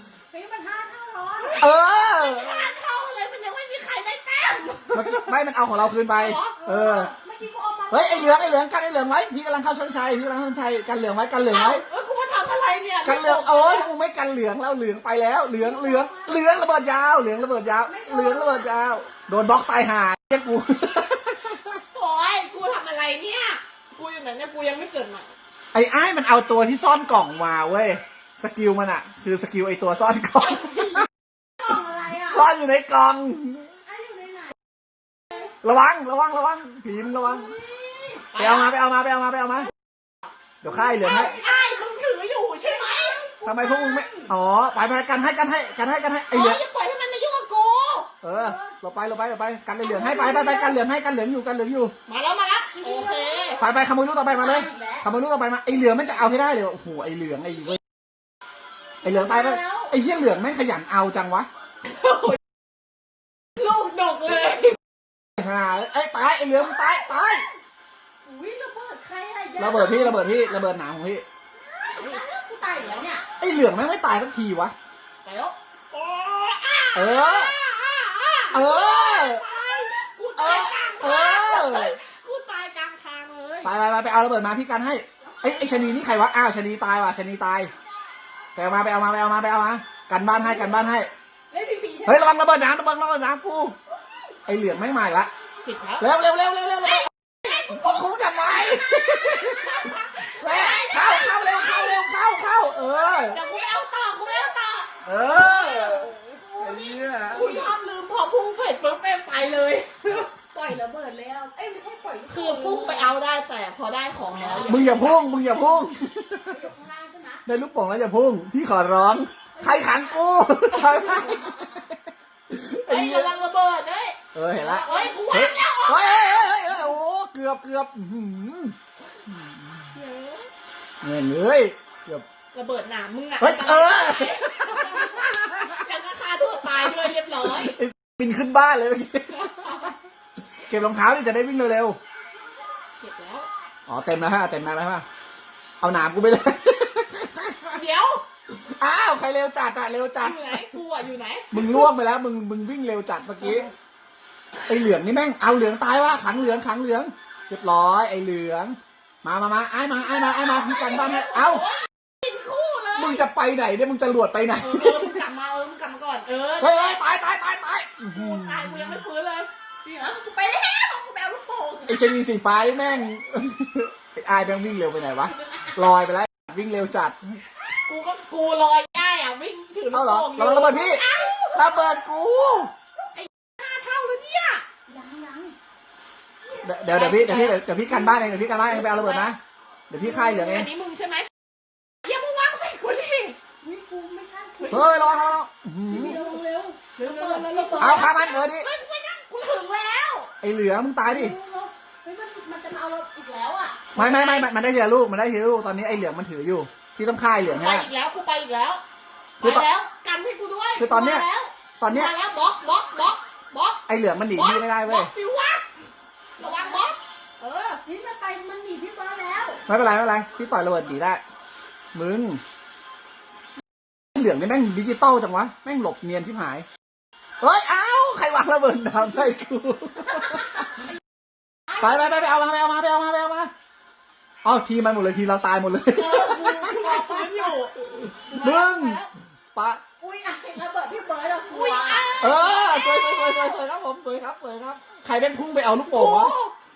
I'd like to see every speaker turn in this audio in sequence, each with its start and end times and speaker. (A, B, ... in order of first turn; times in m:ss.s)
0:00.3-0:01.8 A
0:01.5-0:05.3 B
0:01.6-0:02.7 C
0:04.9-0:07.1 C
0:06.2-0:06.6 B
0:06.6-0:08.6 A
0:07.9-0:11.8 C
0:11.5-0:13.9 B
0:13.0-0:21.8 C
0:15.6-0:16.4 A
0:17.8-0:18.8 A
0:21.9-0:25.3 B
0:25.7-0:31.1 C
0:30.6-0:30.9 B
0:31.6-0:32.5 A
0:32.2-0:33.7 C
0:33.9-0:34.6 A
0:35.6-0:37.6 C
0:37.2-0:38.3 A
0:38.3-0:38.7 B
0:38.4-0:39.7 C
0:40.6-0:41.4 C
0:40.7-0:41.5 A
0:41.0-0:43.2 B
0:42.7-0:44.3 A
0:43.4-0:46.6 C
0:46.3-0:48.1 B
0:48.2-0:51.9 C
0:48.3-0:48.8 A
0:49.8-0:50.8 A
0:52.1-0:53.6 B
0:52.8-0:53.6 A
0:53.6-0:57.8 C
0:54.2-0:55.1 A
0:59.0-0:59.9 A
0:59.0-1:01.5 C
1:01.9-1:02.4 B
1:03.6-1:04.8 B
1:05.4-1:07.5 C
1:08.2-1:10.4 A
1:09.6-1:11.2 C
1:11.7-1:13.3 A
1:12.0-1:12.2 B
1:13.4-1:14.7 C
1:15.2-1:23.7 B
1:16.9-1:17.5 C
1:18.5-1:19.4 C
1:20.4-1:22.0 C
1:23.6-1:27.7 C
1:28.6-1:31.1 C
1:31.5-1:32.4 A
1:32.0-1:33.8 C
1:34.5-1:35.3 C
1:35.6-1:36.2 B
1:36.0-1:39.9 C
1:37.5-1:38.0 B
1:38.5-1:42.0 B
1:40.4-1:43.4 C
1:43.3-1:44.9 B
1:45.0-1:47.7 C
1:45.3-1:47.8 A
1:47.3-1:50.3 B
1:50.3-1:53.2 A
1:52.3-1:55.2 B
1:54.3-1:55.0 A
1:54.6-1:56.6 C
1:56.4-1:57.4 A
1:57.5-2:01.9 C
1:59.6-2:01.8 A
2:00.7-2:01.4 B
2:02.5-2:03.3 C
2:02.9-2:06.8 B
2:04.3-2:08.8 C
2:04.6-2:05.4 A
2:09.3-2:09.6 C
2:09.9-2:10.4 B
2:11.0-2:12.2 C
2:12.5-2:17.8 B
2:13.4-2:15.7 C
2:17.6-2:19.9 C
2:19.3-2:19.9 B
2:20.7-2:22.0 C
2:23.0-2:23.5 B
2:23.9-2:25.0 C
2:25.8-2:27.8 C
2:27.7-2:28.2 B
2:28.8-2:30.6 C
2:30.2-2:31.9 B
2:31.5-2:33.7 C
2:33.4-2:33.7 B
2:34.7-2:41.7 C
2:40.1-2:43.2 B
2:42.9-2:45.2 C
2:44.6-2:47.1 B
2:46.6-2:49.0 C
2:48.1-2:49.5 B
2:49.8-2:52.0 A
2:51.9-2:57.2 C
2:57.9-3:01.8 B
2:59.9-3:02.7 C
3:03.2-3:04.6 B
3:04.9-3:05.6 A
3:06.6-3:09.4 C
3:06.9-3:09.4 B
3:09.9-3:10.7 C
3:10.0-3:11.3 B
3:12.0-3:13.4 B
3:13.6-3:15.3 A
3:14.6-3:15.3 B
3:14.7-3:16.2 C
3:15.9-3:18.1 A
3:17.0-3:20.3 B
3:17.8-3:18.7 C
3:20.4-3:21.4 C
3:21.0-3:23.9 A
3:23.9-3:24.5 B
3:23.9-3:27.9 C
3:27.4-3:28.8 B
3:29.4-3:35.6 B
3:29.4-3:29.7 C
3:30.8-3:31.2 C
3:31.8-3:32.1 C
3:33.9-3:35.1 C
3:36.4-3:37.8 B
3:36.4-3:36.9 A
3:37.8-3:39.6 A
3:39.7-3:41.2 C
3:41.9-3:42.4 C
3:44.2-3:46.7 C
3:47.4-3:50.8 C
3:51.7-3:52.4 A
3:51.8-3:53.5 C
3:54.4-3:59.0 C
3:55.9-3:59.1 B
3:59.6-3:59.8 C
4:00.0-4:02.2 A
4:01.5-4:03.4 B
4:02.2-4:06.3 C
4:05.9-4:06.5 B